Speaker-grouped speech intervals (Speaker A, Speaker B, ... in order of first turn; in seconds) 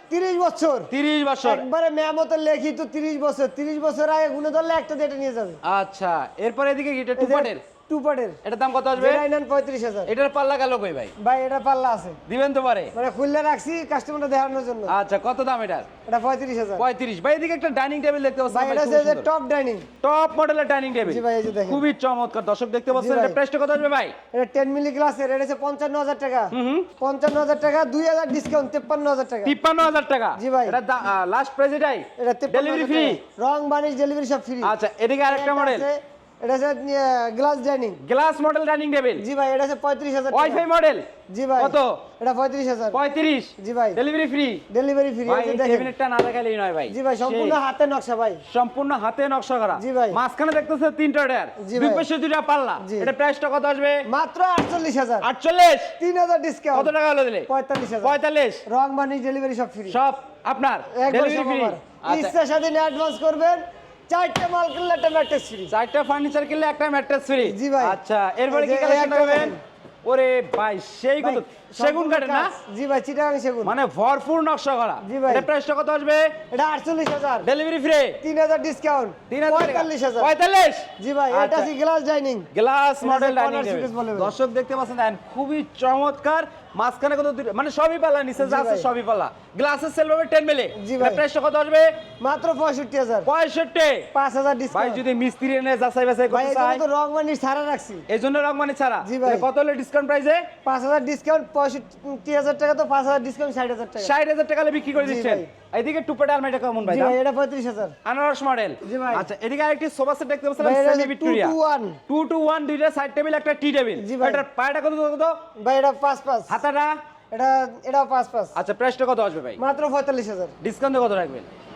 Speaker A: 0.1-0.9, 1.4-5.6, 7.2-8.4, 8.9-10.1, 11.2-12.2, 12.9-14.9, 16.1-16.9, 18.5-19.9, 21.1-21.8, 22.9-23.4, 24.3-29.6, 30.4-30.8, 32.2-34.8, 35.3-38.0, 39.2-40.7, 41.3-43.0, 43.6-44.0, 44.7-45.9, 46.9-48.4, 49.7-50.2, 51.6-52.1, 52.8-53.1, 54.1-55.3, 56.0-56.9, 57.5-60.0, 60.9-65.7, 67.4-69.6, 71.2-73.8, 75.0-75.5, 76.5-77.5, 78.2-80.3, 81.0-82.5, 83.0-84.3, 88.4-88.9, 90.8-91.2, 92.2-93.3, 94.1-95.0, 96.3-98.1, 99.0-99.5, 100.7-104.2, 105.0-105.5, 106.8-108.0, 108.8-109.3, 110.6-112.0, 114.0-114.5, 115.6-116.6, 117.3-118.5, 119.6-120.5
Speaker B: 0.9-1.6, 5.6-7.6, 8.4-9.2, 10.1-11.1, 12.3-12.9, 14.9-15.9, 16.8-19.3, 20.0-24.1, 26.5-26.9, 29.4-33.2, 34.6-35.9, 38.0-39.3, 40.3-42.1, 42.9-44.6, 45.3-47.6, 48.5-54.1, 55.2-56.0, 56.7-57.5, 58.0-58.6, 59.9-62.3, 65.7-72.5, 73.6-76.4, 77.4-78.2, 79.3-81.7, 82.5-92.0, 93.2-94.1, 94.7-96.8, 98.1-100.5, 104.0-107.2, 108.0-111.6, 112.1-115.5, 116.5-117.0, 118.5-119.6, 120.6-121.5